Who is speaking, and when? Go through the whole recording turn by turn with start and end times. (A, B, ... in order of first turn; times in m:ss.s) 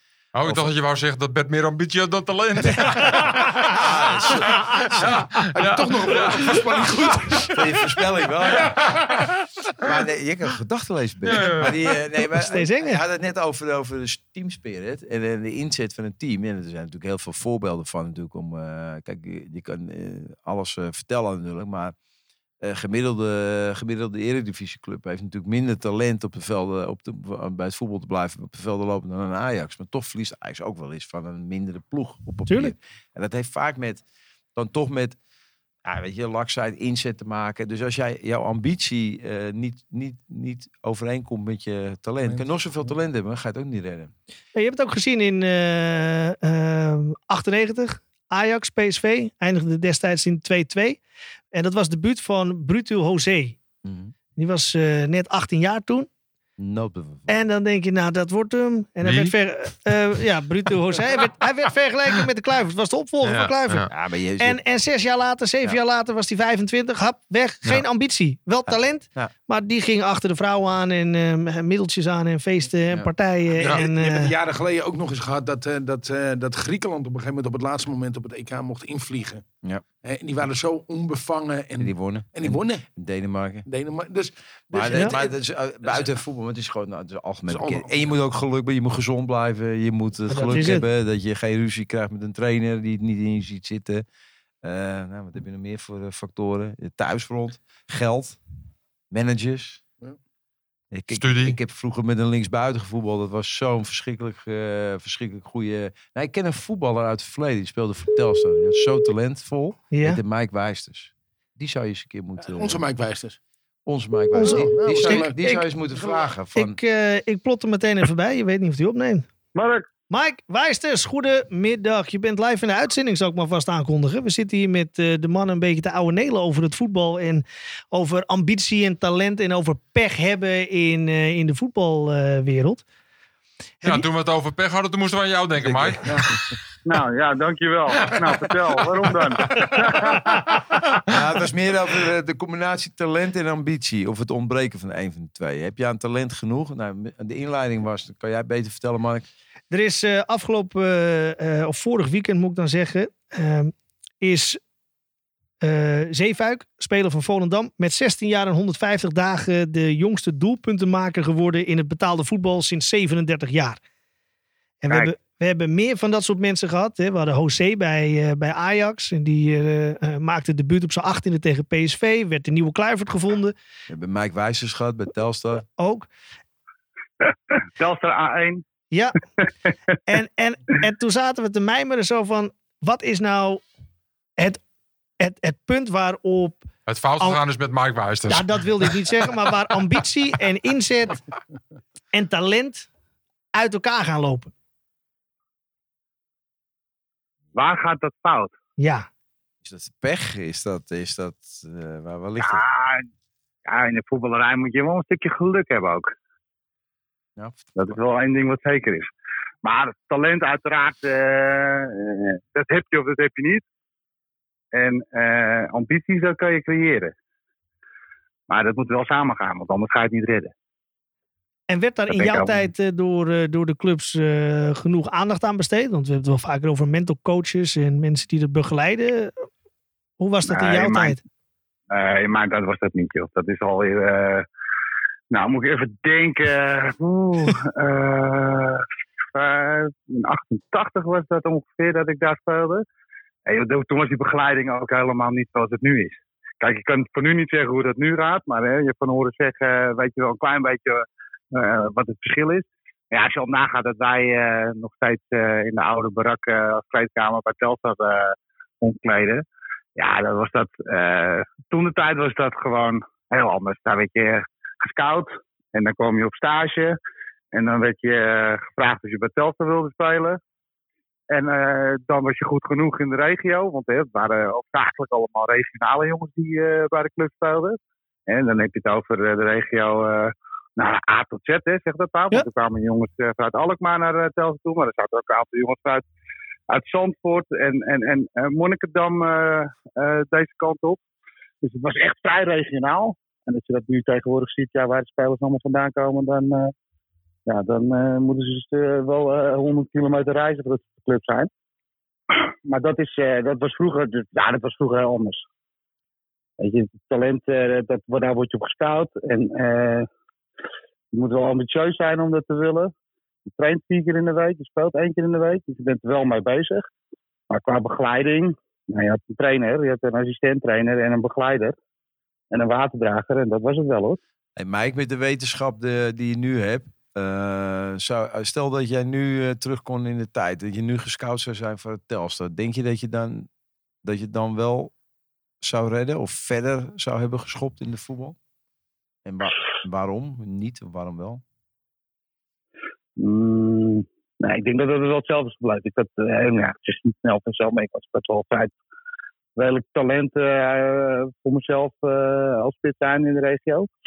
0:00.3-0:07.3 A
0:00.4-0:00.7 B
0:02.6-0:04.8 B
0:04.9-0:08.0 C
0:07.5-0:09.0 B
0:08.5-0:09.3 C
0:09.8-0:21.9 B
0:11.2-0:11.8 A
0:12.3-0:13.0 D
0:22.6-0:34.0 B
0:32.5-0:32.7 D
0:34.5-0:35.2 B
0:35.8-0:44.1 B
0:42.2-0:42.9 C
0:44.5-0:51.0 D
0:51.5-0:53.6 D
0:53.8-0:54.1 B
0:54.4-0:56.1 D
0:56.6-0:57.4 B
0:57.3-1:14.3 D
0:59.0-0:59.3 A
1:03.2-1:03.9 A
1:03.9-1:04.6 B
1:08.7-1:09.3 B
1:13.6-1:19.4 C
1:20.0-1:22.8 C
1:21.8-1:23.7 B
1:23.6-1:25.3 C
1:24.7-1:34.0 B
1:27.5-1:28.1 C
1:30.3-1:30.8 D
1:34.6-1:38.4 B
1:39.1-1:39.8 B
1:40.9-1:52.8 B
1:41.1-1:41.6 A
1:49.9-1:50.2 D
1:52.4-1:53.4 C
1:53.8-1:56.8 B
1:54.3-1:55.6 D
1:54.4-1:55.4 C
1:55.9-1:56.3 C
1:56.5-1:59.3 D
1:59.5-1:59.9 E
2:00.1-2:12.8 D
2:13.8-2:16.5 A
2:15.6-2:16.5 B
2:16.8-2:20.6 E
2:18.0-2:18.8 A
2:21.1-2:29.2 B
2:29.7-2:34.6 D
2:35.6-2:43.8 D
2:44.8-2:53.5 D
2:53.9-2:55.6 B
2:55.8-2:56.1 D
2:57.2-2:58.6 E
2:58.9-2:59.2 D
3:00.1-3:03.6 D
3:05.2-3:06.6 D
3:06.9-3:08.9 A
3:08.3-3:11.2 D
3:12.1-3:12.9 D
3:13.5-3:14.5 D
3:17.5-3:18.5 E
3:18.8-3:19.1 D
3:19.6-3:22.6 B
3:22.4-3:23.0 E
3:23.6-3:26.1 E
3:27.4-3:28.0 B
3:27.8-3:29.1 E
3:29.6-3:33.6 E
3:34.7-3:37.1 E
3:38.5-3:40.5 E
3:41.7-3:49.5 D
3:42.1-3:42.7 E
3:50.2-3:51.2 D
3:50.4-3:51.2 E
3:51.9-3:54.4 E
3:55.3-4:02.8 E
4:03.4-4:19.4 E
4:20.0-4:27.0 E
4:27.5-4:30.4 E
4:31.3-4:46.0 E
4:46.7-4:51.0 E
4:51.6-4:56.7 E
4:57.4-5:01.5 E
5:02.6-5:05.4 E
5:06.6-5:10.1 E
5:11.1-5:12.9 E
5:13.5-5:16.9 E
5:17.5-5:21.8 E
5:22.5-5:24.2 E
5:24.6-5:33.5 B
5:34.0-5:34.9 B
5:35.6-5:38.4 B
5:39.2-5:41.4 B
5:43.2-5:48.7 E
5:49.6-5:53.9 E